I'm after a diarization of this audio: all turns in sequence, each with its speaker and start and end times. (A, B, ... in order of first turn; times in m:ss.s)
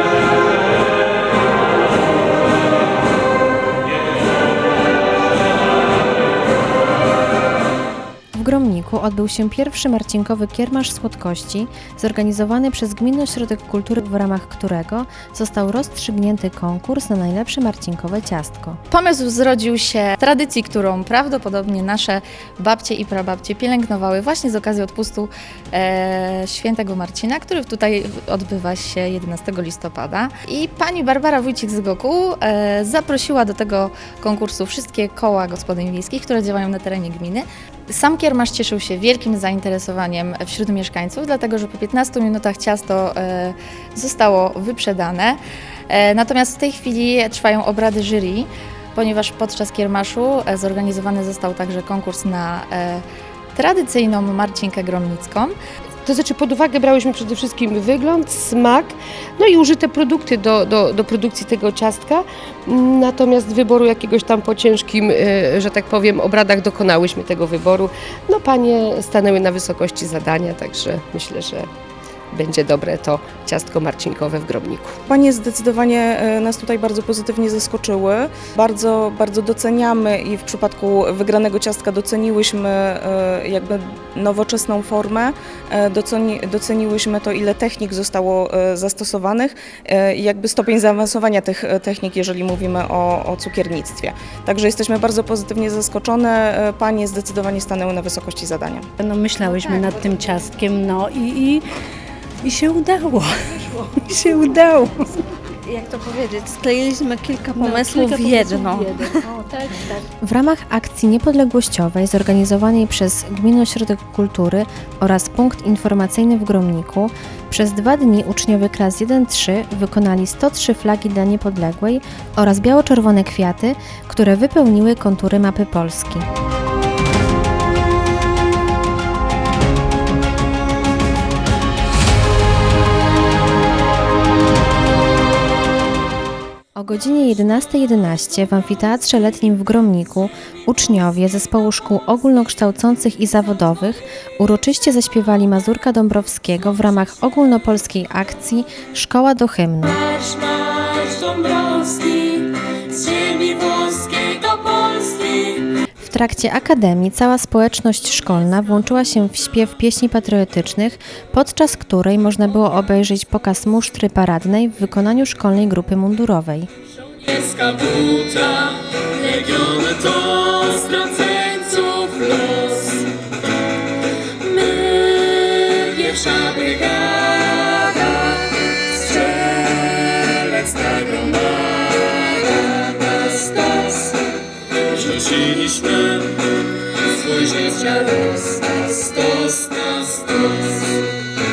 0:08.3-0:18.8 A
0:18.9-0:55.6 B
0:56.0-1:11.7 C
1:12.3-1:15.0 C
1:15.1-1:25.3 D
1:25.8-1:38.8 D
1:39.0-1:41.6 E
1:42.4-1:45.2 E
1:45.6-1:49.3 F
1:47.2-1:49.9 E
1:50.2-2:06.3 A
2:16.8-2:30.0 A
2:30.1-2:35.6 G
2:36.0-2:46.7 A
2:47.2-2:53.1 G
2:54.4-3:04.1 G
3:04.9-3:06.3 G
3:07.1-3:10.6 G